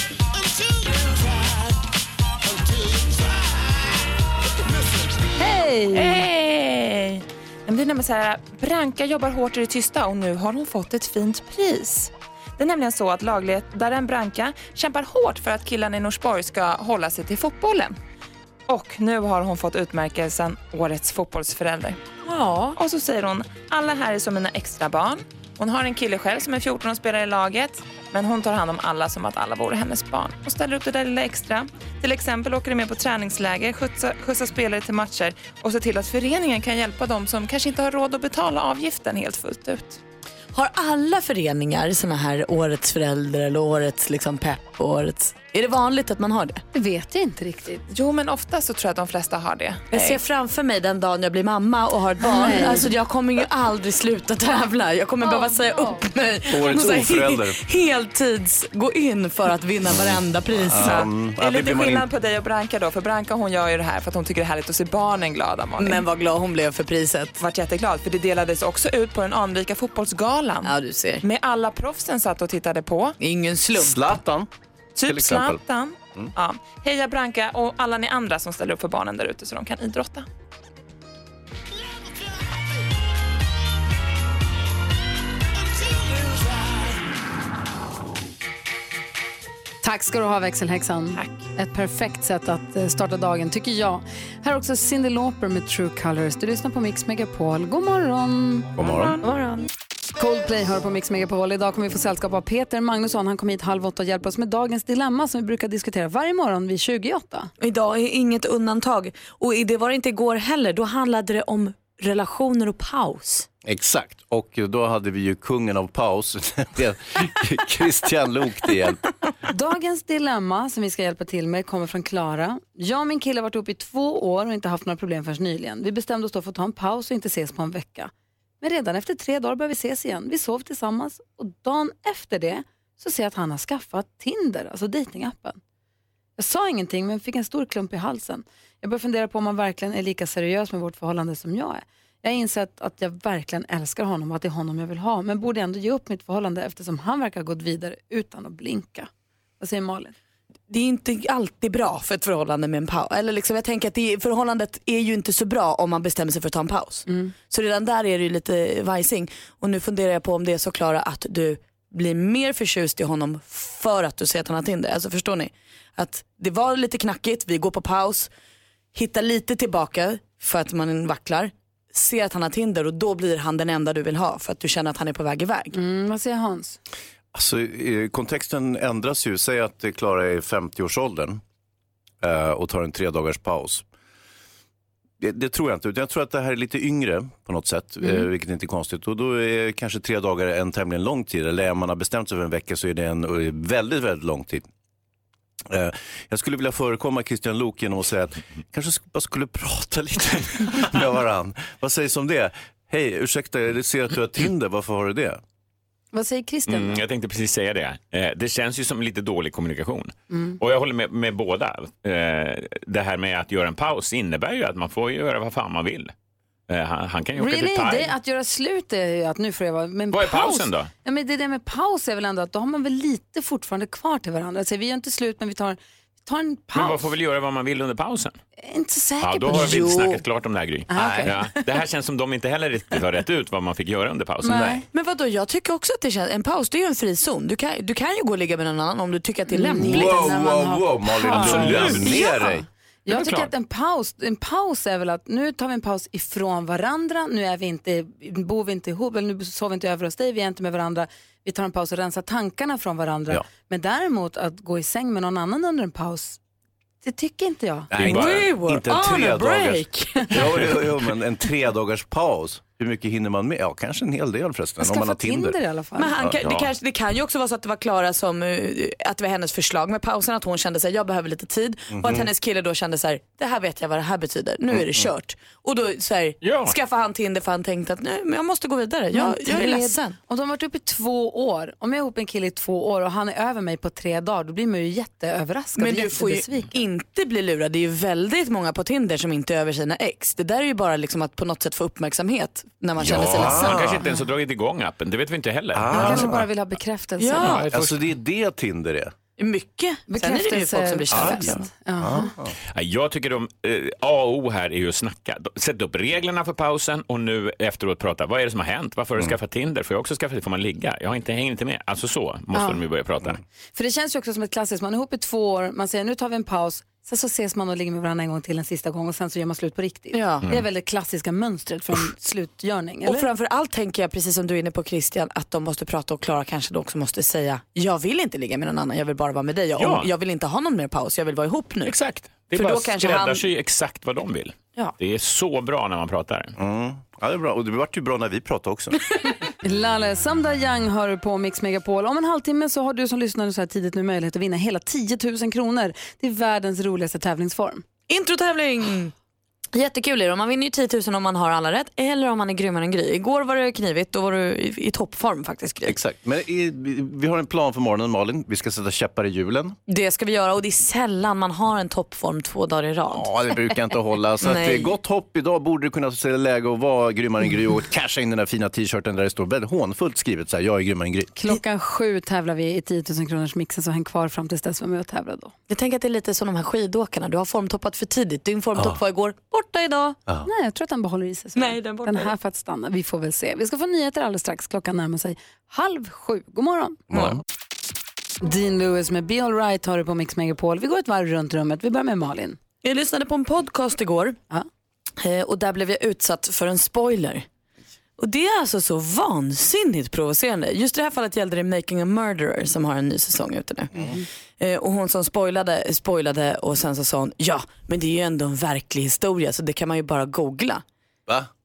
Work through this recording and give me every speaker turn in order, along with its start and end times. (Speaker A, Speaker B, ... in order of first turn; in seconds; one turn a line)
Speaker A: 5.4-6.3
Speaker B: 5.9-17.9
Speaker B: 18.7-22.0
Speaker C: 22.2-22.8
Speaker B: 22.8-40.0
Speaker C: 40.5-46.6
Speaker A: 46.7-47.8
Speaker B: 47.9-50.2
Speaker C: 49.9-61.0
Speaker A: 52.3-52.9
Speaker A: 55.2-56.0
Speaker D: 56.5-57.6
Speaker D: 59.9-62.0
Speaker B: 60.7-66.0
Speaker C: 65.8-67.3
Speaker B: 67.4-73.2
Speaker C: 70.6-71.2
Speaker C: 73.2-74.0
Speaker D: 73.7-74.5
Speaker B: 75.0-80.2
Speaker D: 75.0-75.6
Speaker A: 89.8-98.7
Speaker B: 91.1-91.4
Speaker D: 98.8-99.2
Speaker C: 98.8-99.7
Speaker A: 100.2-107.5
Speaker C: 107.6-113.5
Speaker D: 113.6-119.0
Speaker A: 119.5-135.6
Speaker A: 136.4-149.1
Speaker A: 149.6-150.1
Speaker C: 150.7-168.3
Speaker A: 157.1-157.3
Speaker C: 168.9-175.8
Speaker A: 175.7-176.8
Speaker D: 177.3-181.4
Speaker D: 182.2-183.8
Speaker D: 185.2-194.7
Speaker D: 195.7-205.4
Speaker A: 206.1-207.0
Speaker E: 206.7-216.1
Speaker A: 210.3-210.6
Speaker E: 216.7-218.1
Speaker A: 217.4-227.1
Speaker E: 220.1-220.9
Speaker E: 226.7-228.4
Speaker A: 228.6-229.9
Speaker E: 229.2-234.7
Speaker C: 229.5-230.2
Speaker A: 230.9-231.6
Speaker D: 230.9-231.3
Speaker A: 234.4-234.8
Speaker D: 234.4-234.8
Speaker C: 234.9-240.4
Speaker A: 239.5-256.4
Speaker D: 239.8-242.6
Speaker C: 241.4-242.2
Speaker E: 243.1-243.5
Speaker A: 257.0-257.9
Speaker D: 257.9-265.6
Speaker E: 257.9-258.5
Speaker C: 258.1-260.6
Speaker A: 264.8-266.2
Speaker C: 265.9-280.1
Speaker D: 266.2-266.7
Speaker E: 266.4-266.7
Speaker D: 271.9-272.3
Speaker D: 274.7-275.1
Speaker E: 276.4-276.8
Speaker A: 279.1-286.7
Speaker C: 285.8-294.0
Speaker D: 293.0-294.0
Speaker E: 293.0-296.4
Speaker D: 295.7-296.4
Speaker A: 295.9-297.6
Speaker C: 297.2-297.7
Speaker E: 297.4-298.1
Speaker D: 297.7-299.1
Speaker C: 299.4-301.7
Speaker A: 300.1-302.3
Speaker D: 301.1-302.5
Speaker E: 302.7-313.4
Speaker A: 312.5-312.8
Speaker A: 313.7-323.3
Speaker C: 320.1-320.5
Speaker C: 323.0-332.0
Speaker E: 329.8-330.1
Speaker E: 331.8-336.6
Speaker C: 332.5-333.5
Speaker D: 336.6-339.0
Speaker A: 339.6-347.8
Speaker C: 348.1-349.1
Speaker C: 349.7-356.0
Speaker D: 355.9-359.8
Speaker C: 359.9-363.3
Speaker D: 363.1-371.4
Speaker C: 364.4-364.9
Speaker A: 371.4-375.5
Speaker C: 375.7-380.2
Speaker A: 380.4-387.0
Speaker C: 381.5-382.3
Speaker D: 387.1-387.4
Speaker A: 388.4-392.6
Speaker C: 392.8-394.4
Speaker C: 395.2-397.4
Speaker C: 398.2-410.8